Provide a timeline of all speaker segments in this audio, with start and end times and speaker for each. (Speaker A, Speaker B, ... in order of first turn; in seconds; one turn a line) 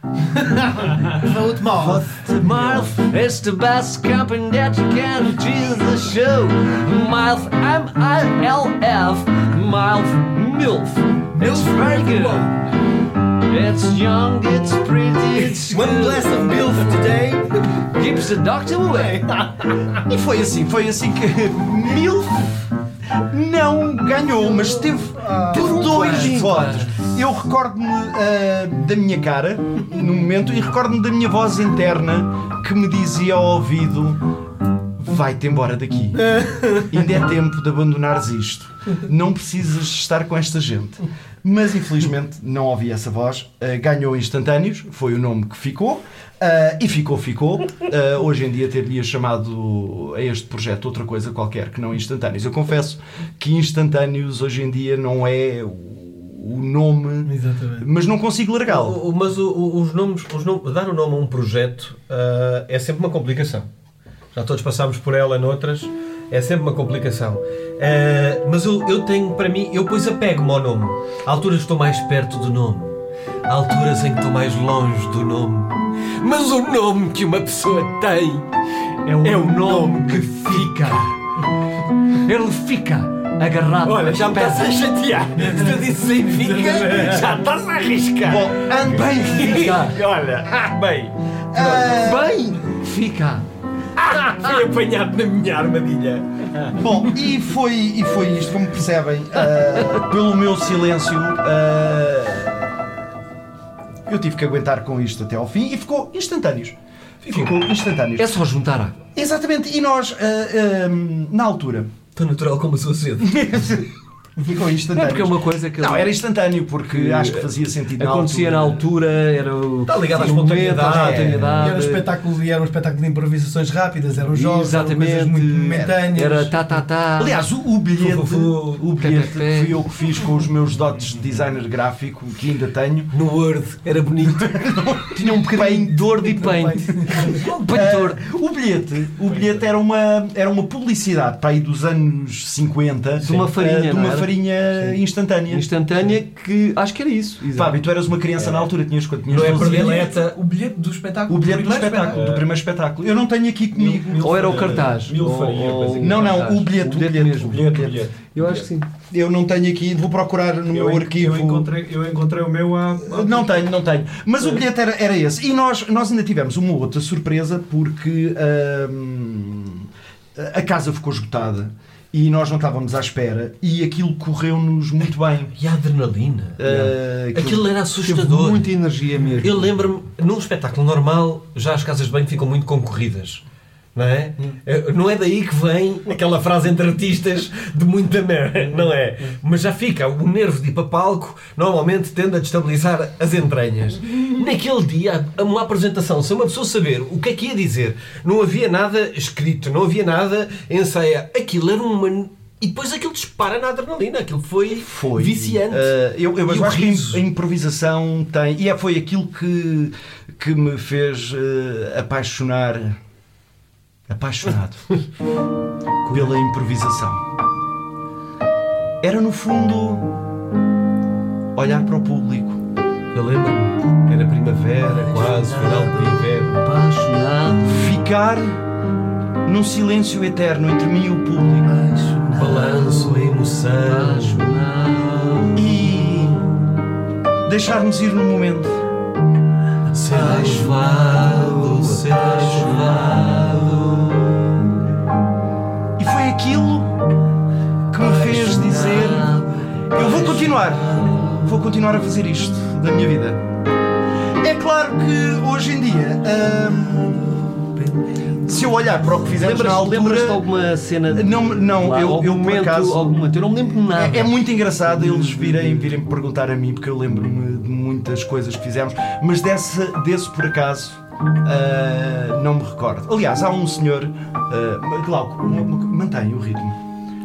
Speaker A: 0.3-2.1
Speaker B: 1.7-2.9
Speaker C: 2.4-12.5
Speaker A: 11.3-12.5
Speaker C: 13.4-16.4
Speaker A: 15.3-18.1
Speaker C: 17.9-19.2
Speaker A: 18.9-20.0
Speaker B: 20.1-34.2
Speaker A: 24.5-26.5
Speaker C: 25.5-27.2
Speaker B: 35.0-59.0
Speaker A: 57.2-57.9
Speaker D: 58.6-63.7
Speaker D: 64.3-72.9
Speaker D: 73.5-78.5
Speaker C: 79.0-81.1
Speaker D: 79.1-81.0
Speaker C: 82.2-84.7
Speaker D: 83.8-91.7
Speaker A: 85.3-87.2
Speaker B: 88.2-89.8
Speaker C: 89.5-90.0
Speaker B: 91.5-92.4
Speaker C: 91.7-93.5
Speaker D: 94.0-96.6
Speaker B: 96.7-102.8
Speaker B: 104.1-106.7
Speaker D: 107.2-107.6
Speaker B: 107.3-108.3
Speaker C: 108.2-109.0
Speaker B: 109.1-111.9
Speaker D: 112.1-113.7
Speaker B: 113.2-118.8
Speaker C: 114.9-116.1
Speaker C: 116.9-122.1
Speaker D: 119.8-121.5
Speaker B: 120.5-121.5
Speaker A: 121.5-126.5
Speaker C: 124.3-127.5
Speaker B: 127.2-133.1
Speaker D: 127.9-128.8
Speaker C: 129.0-129.8
Speaker D: 133.1-134.6
Speaker B: 134.3-136.3
Speaker A: 135.2-137.4
Speaker C: 136.1-138.2
Speaker B: 137.5-145.7
Speaker E: 139.3-139.6
Speaker D: 143.2-143.4
Speaker C: 143.2-147.8
Speaker B: 147.5-150.1
Speaker D: 149.3-152.2
Speaker B: 151.3-154.9
Speaker E: 152.1-152.4
Speaker E: 153.8-156.3
Speaker C: 154.2-158.8
Speaker B: 156.0-158.1
Speaker E: 157.4-158.7
Speaker B: 159.1-161.7
Speaker E: 160.7-163.7
Speaker B: 163.0-175.5
Speaker D: 175.5-178.7
Speaker B: 176.6-177.7
Speaker C: 178.0-179.7
Speaker D: 179.4-183.4
Speaker D: 183.9-205.9
Speaker B: 204.7-213.0
Speaker D: 206.4-207.2
Speaker B: 214.1-214.9
Speaker B: 216.0-217.2
Speaker B: 219.0-220.1
Speaker B: 221.5-222.6
Speaker D: 223.1-226.6
Speaker C: 225.3-228.0
Speaker B: 227.7-228.6
Speaker B: 229.4-231.9
Speaker C: 232.2-232.7
Speaker D: 232.3-234.4
Speaker C: 233.8-235.6
Speaker B: 235.5-236.5
Speaker B: 237.4-238.8
Speaker D: 239.9-243.5
Speaker C: 240.1-244.2
Speaker B: 246.0-246.9
Speaker B: 247.9-249.3
Speaker C: 248.1-251.5
Speaker B: 249.9-253.4
Speaker B: 254.4-257.5
Speaker B: 258.4-260.4
Speaker C: 259.2-265.9
Speaker B: 261.1-263.2
Speaker B: 263.9-276.8